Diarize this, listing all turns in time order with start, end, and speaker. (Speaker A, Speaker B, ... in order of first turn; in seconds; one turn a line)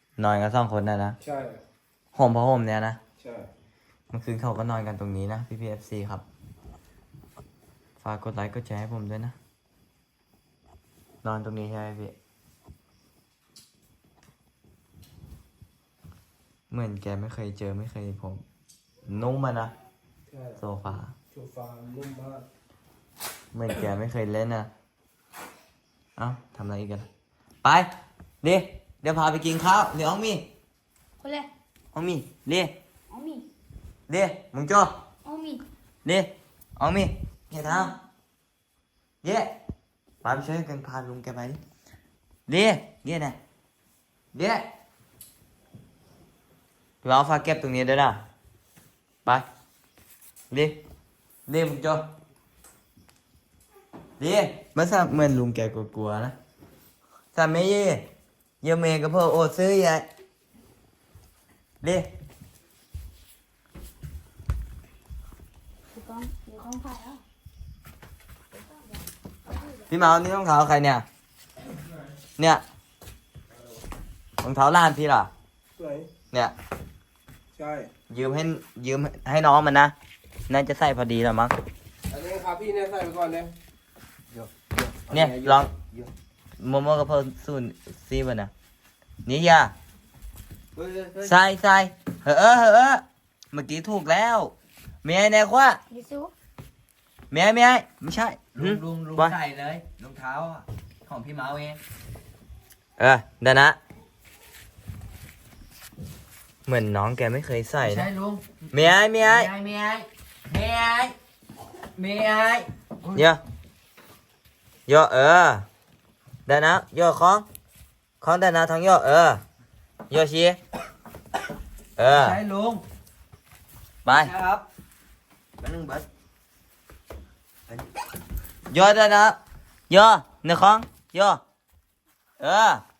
Speaker A: 0.2-1.2
Speaker B: 1.2-1.6
Speaker A: 2.1-3.0
Speaker B: 3.2-3.5
Speaker A: 4.1-6.2
Speaker A: 8.0-9.3
Speaker A: 11.2-12.2
Speaker A: 16.7-18.4
Speaker A: 19.1-19.7
Speaker B: 20.3-20.6
Speaker A: 20.6-21.1
Speaker B: 21.3-22.5
Speaker A: 23.5-24.7
Speaker A: 26.2-27.1
Speaker A: 27.6-27.9
Speaker A: 28.4-30.5
Speaker C: 31.2-31.5
Speaker A: 31.9-32.7
Speaker C: 33.1-33.5
Speaker A: 34.1-35.0
Speaker C: 35.2-35.6
Speaker A: 36.0-38.0
Speaker A: 39.2-39.6
Speaker A: 40.2-41.6
Speaker A: 42.5-43.4
Speaker A: 44.3-44.7
Speaker A: 47.0-48.2
Speaker A: 50.5-50.8
Speaker A: 51.5-52.1
Speaker A: 54.2-56.4
Speaker A: 57.4-58.1
Speaker A: 58.6-60.1
Speaker A: 61.8-62.1
Speaker C: 65.9-67.2
Speaker C: 68.5-69.9
Speaker A: 69.9-71.0
Speaker A: 72.4-72.6
Speaker A: 74.4-75.3
Speaker B: 75.8-76.1
Speaker B: 77.5-77.9
Speaker A: 78.1-79.9
Speaker A: 80.5-81.6
Speaker B: 82.1-83.5
Speaker D: 84.3-86.1
Speaker A: 85.1-85.7
Speaker A: 86.6-88.5
Speaker A: 89.2-89.7
Speaker D: 90.8-91.4
Speaker A: 91.2-95.8
Speaker C: 95.9-96.3
Speaker A: 97.3-99.4
Speaker D: 98.5-101.8
Speaker A: 103.0-103.8
Speaker A: 106.7-108.1
Speaker D: 107.8-111.2
Speaker A: 108.7-109.5
Speaker D: 111.8-113.2
Speaker A: 113.2-113.4
Speaker A: 114.9-115.7
Speaker A: 116.5-117.5
Speaker A: 118.2-119.4
Speaker A: 120.1-120.6
Speaker A: 122.0-122.4
Speaker D: 122.0-122.8
Speaker A: 124.0-124.3
Speaker D: 124.1-124.7
Speaker D: 125.6-126.1
Speaker A: 128.7-129.4
Speaker A: 129.9-131.4
Speaker A: 132.4-132.8